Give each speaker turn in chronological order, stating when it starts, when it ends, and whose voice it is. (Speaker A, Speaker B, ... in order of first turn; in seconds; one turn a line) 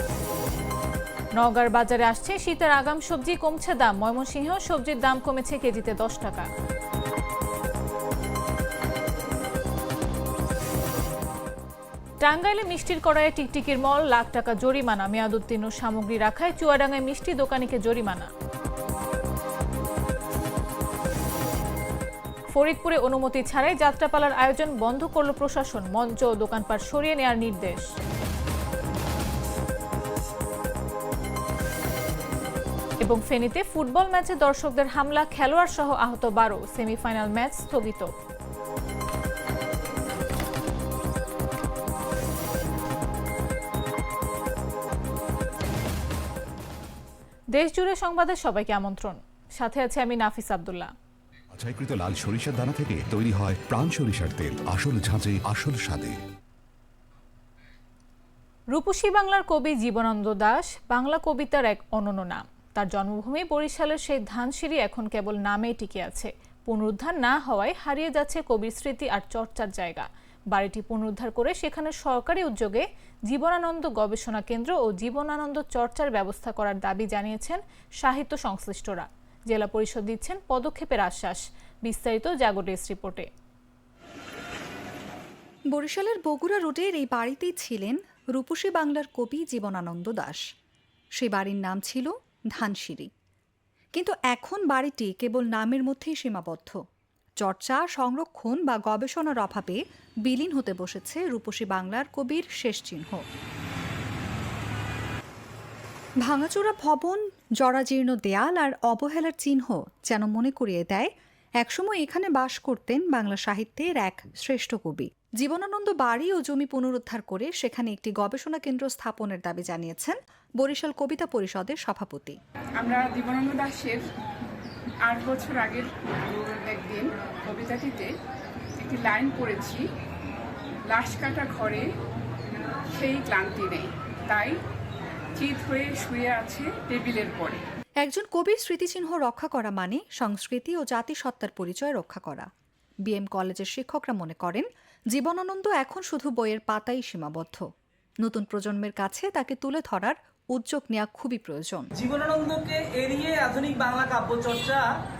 Speaker A: 1.4-6.5
Speaker A: 12.2-18.3
Speaker A: 22.5-27.9
Speaker A: 33.0-38.1
Speaker A: 47.5-50.9
Speaker B: 51.5-56.2
Speaker A: 58.7-83.3
Speaker C: 85.7-90.4
Speaker C: 91.2-93.1
Speaker C: 93.9-96.8
Speaker C: 97.4-103.2
Speaker C: 106.2-111.1
Speaker C: 111.6-122.4
Speaker D: 122.8-124.0
Speaker D: 125.0-128.1
Speaker D: 128.8-129.8
Speaker D: 130.9-131.9
Speaker D: 132.9-134.6
Speaker D: 135.4-137.6
Speaker C: 138.0-142.5
Speaker C: 143.1-147.7
Speaker C: 148.2-151.9
Speaker E: 152.0-154.9